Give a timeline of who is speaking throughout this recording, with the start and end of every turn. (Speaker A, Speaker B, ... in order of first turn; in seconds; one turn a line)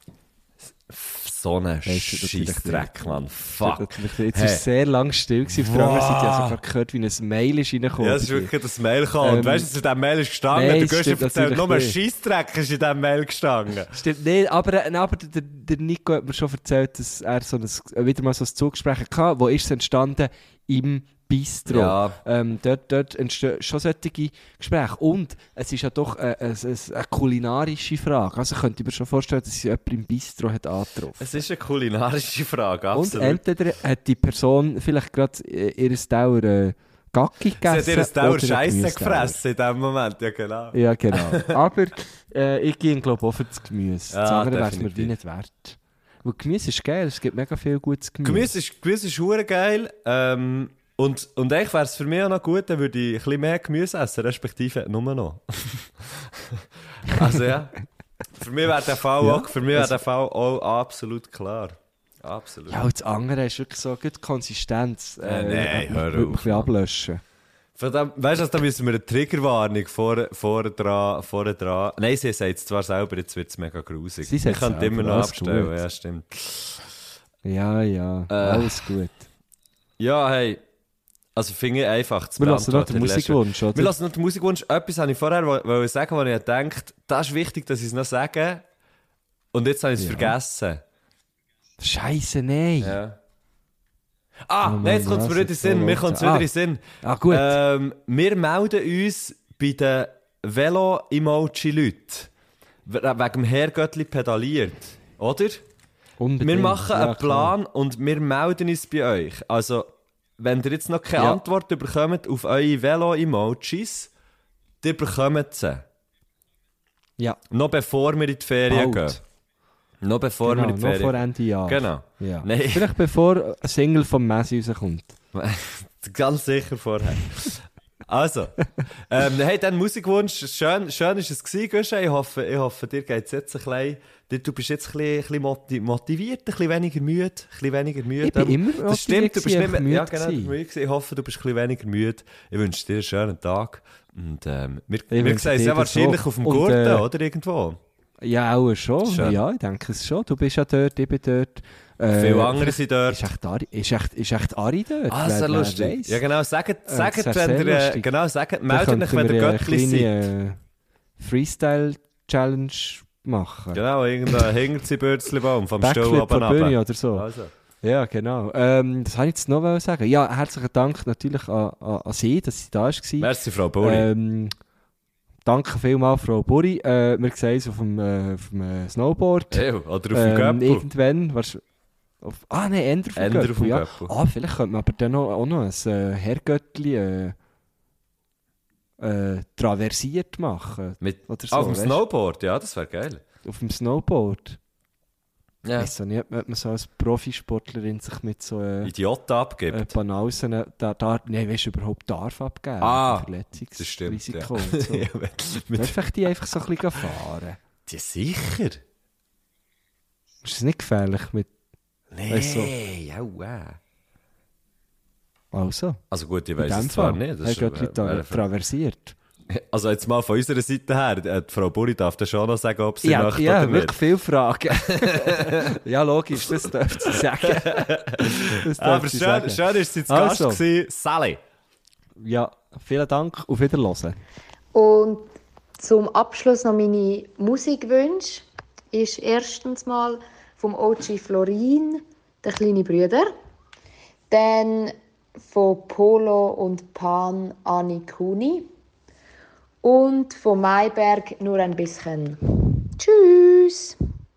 Speaker A: 0.8-4.6
Speaker B: 1.9-8.5
Speaker A: 5.6-6.6
Speaker A: 8.0-14.0
Speaker B: 9.2-9.7
Speaker B: 10.5-12.0
Speaker B: 13.9-31.4
Speaker A: 21.7-22.2
Speaker A: 31.2-33.4
Speaker B: 32.9-39.4
Speaker A: 37.6-41.5
Speaker B: 40.7-48.5
Speaker A: 44.1-45.1
Speaker A: 48.2-57.7
Speaker A: 58.4-62.8
Speaker B: 59.2-59.9
Speaker B: 62.7-67.2
Speaker A: 65.2-66.7
Speaker A: 67.8-76.9
Speaker B: 74.2-75.8
Speaker B: 77.4-79.3
Speaker A: 78.3-78.9
Speaker A: 80.0-80.6
Speaker A: 81.3-88.6
Speaker B: 82.4-83.9
Speaker A: 89.5-90.8
Speaker B: 90.0-90.3
Speaker B: 91.8-93.0
Speaker A: 92.8-93.2
Speaker A: 94.5-102.3
Speaker B: 94.6-96.5
Speaker B: 97.0-97.5
Speaker A: 102.8-105.6
Speaker B: 106.2-107.5
Speaker A: 106.4-114.1
Speaker A: 114.8-115.8
Speaker A: 117.5-119.2
Speaker B: 118.7-119.2
Speaker A: 120.0-122.9
Speaker B: 120.4-125.2
Speaker A: 125.3-147.8
Speaker B: 138.2-140.5
Speaker B: 145.1-147.1
Speaker B: 148.2-156.2
Speaker A: 149.0-149.4
Speaker A: 152.1-153.2
Speaker A: 155.1-160.1
Speaker B: 156.9-158.1
Speaker B: 158.7-160.6
Speaker B: 161.2-163.8
Speaker A: 163.7-167.5
Speaker B: 165.8-167.3
Speaker B: 167.8-174.5
Speaker A: 173.2-174.1
Speaker B: 175.4-181.6
Speaker A: 179.5-180.8
Speaker B: 182.2-187.3
Speaker A: 183.2-184.1
Speaker B: 189.0-192.0
Speaker A: 191.0-193.2
Speaker B: 193.4-194.6
Speaker A: 195.6-195.9
Speaker B: 195.8-198.9
Speaker A: 198.8-199.9
Speaker B: 199.7-205.1
Speaker A: 202.8-205.9
Speaker B: 205.7-207.6
Speaker A: 207.8-208.8
Speaker B: 210.4-211.5
Speaker A: 212.1-213.8
Speaker B: 212.3-212.7
Speaker B: 215.5-216.0
Speaker A: 216.1-218.4
Speaker B: 216.6-219.2
Speaker A: 219.5-223.9
Speaker B: 223.0-230.6
Speaker A: 224.9-225.8
Speaker A: 227.1-231.4
Speaker B: 232.2-234.2
Speaker C: 234.7-243.3
Speaker C: 244.3-248.7
Speaker C: 249.8-254.0